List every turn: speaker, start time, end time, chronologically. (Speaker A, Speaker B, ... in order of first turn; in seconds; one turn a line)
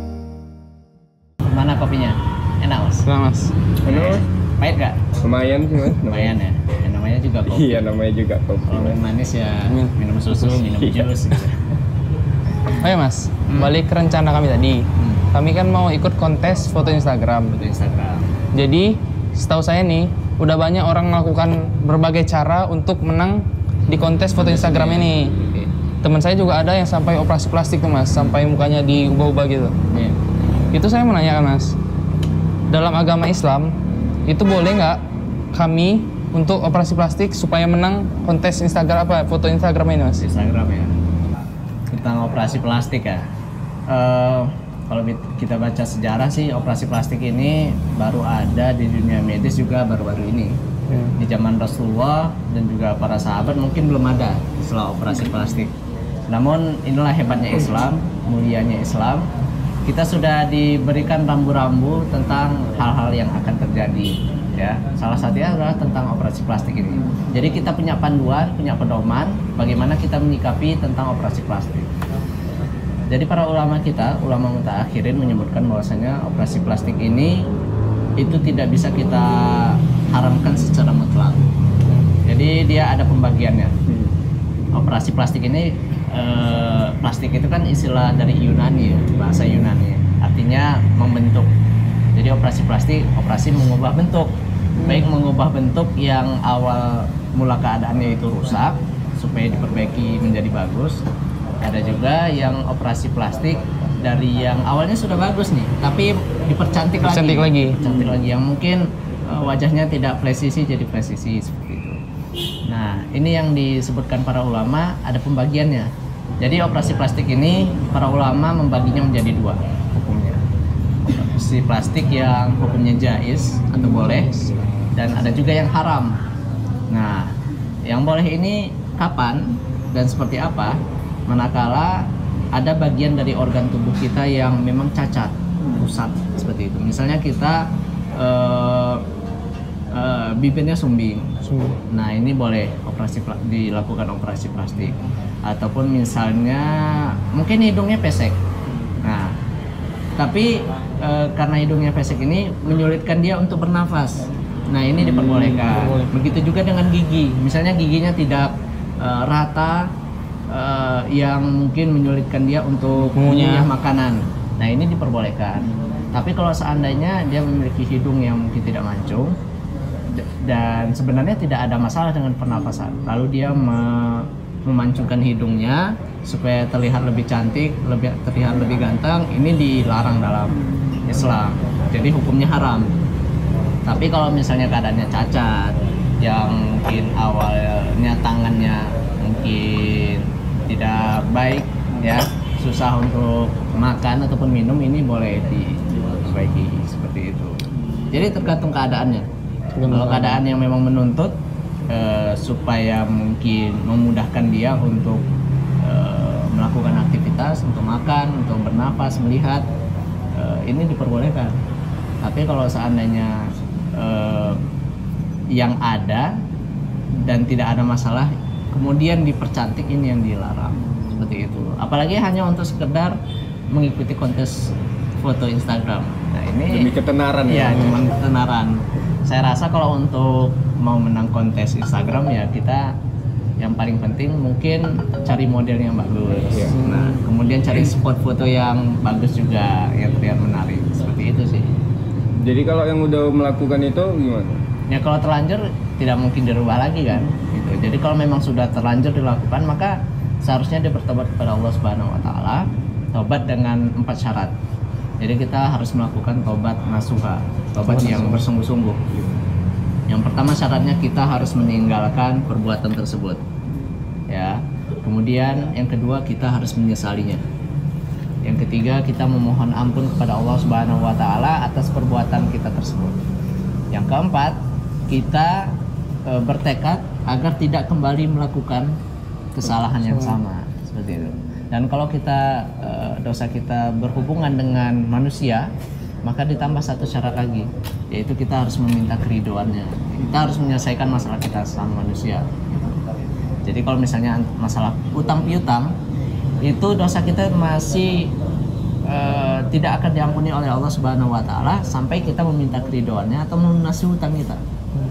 Speaker A: 1.4-3.1
Speaker B: 3.0-3.5
Speaker C: 3.8-4.2
Speaker A: 3.9-5.0
Speaker C: 5.2-6.3
Speaker A: 6.0-7.8
Speaker C: 7.5-9.0
Speaker A: 8.7-11.6
Speaker C: 10.5-11.2
Speaker B: 12.8-17.5
Speaker A: 13.5-13.7
Speaker A: 15.0-15.2
Speaker A: 17.5-18.3
Speaker B: 18.5-25.3
Speaker A: 24.4-25.7
Speaker B: 26.0-29.8
Speaker B: 30.7-31.7
Speaker B: 32.7-33.7
Speaker B: 34.3-40.2
Speaker A: 40.2-40.9
Speaker A: 41.9-43.2
Speaker A: 43.9-50.5
Speaker B: 50.9-51.1
Speaker A: 51.2-55.7
Speaker A: 56.3-59.3
Speaker A: 59.9-71.9
Speaker A: 73.1-77.5
Speaker A: 78.2-81.5
Speaker A: 82.2-83.7
Speaker C: 83.9-84.1
Speaker A: 84.7-91.5
Speaker A: 92.1-101.0
Speaker A: 101.6-112.0
Speaker B: 107.0-107.8
Speaker A: 112.7-115.9
Speaker A: 116.4-120.4
Speaker A: 121.0-126.2
Speaker A: 126.9-127.3
Speaker A: 127.8-137.6
Speaker A: 138.2-139.0
Speaker A: 139.9-141.3
Speaker B: 141.4-141.8
Speaker A: 141.9-148.4
Speaker A: 149.0-149.3
Speaker A: 150.2-159.8
Speaker C: 155.0-155.6
Speaker B: 155.6-156.1
Speaker A: 160.5-169.3
Speaker B: 163.2-163.7
Speaker A: 170.1-182.9
Speaker A: 183.8-197.6
Speaker A: 198.1-199.2
Speaker B: 199.7-200.4
Speaker A: 199.8-201.3
Speaker A: 201.9-205.2
Speaker A: 205.8-209.7
Speaker A: 210.3-211.6
Speaker A: 212.2-213.4
Speaker A: 213.9-214.6
Speaker A: 215.5-216.3
Speaker A: 217.1-223.2
Speaker C: 220.8-221.1
Speaker A: 223.7-226.9
Speaker C: 226.7-227.9
Speaker A: 227.5-232.9
Speaker A: 233.6-241.7
Speaker C: 242.4-244.6
Speaker A: 244.9-254.5
Speaker A: 255.2-259.1
Speaker B: 257.8-258.4
Speaker A: 260.1-263.4
Speaker A: 264.3-267.4
Speaker A: 268.4-273.2
Speaker A: 273.9-275.7
Speaker A: 276.3-278.9
Speaker A: 279.5-285.7
Speaker B: 280.1-280.4
Speaker A: 286.2-293.0
Speaker A: 293.6-295.9
Speaker A: 296.6-298.3
Speaker A: 299.1-304.6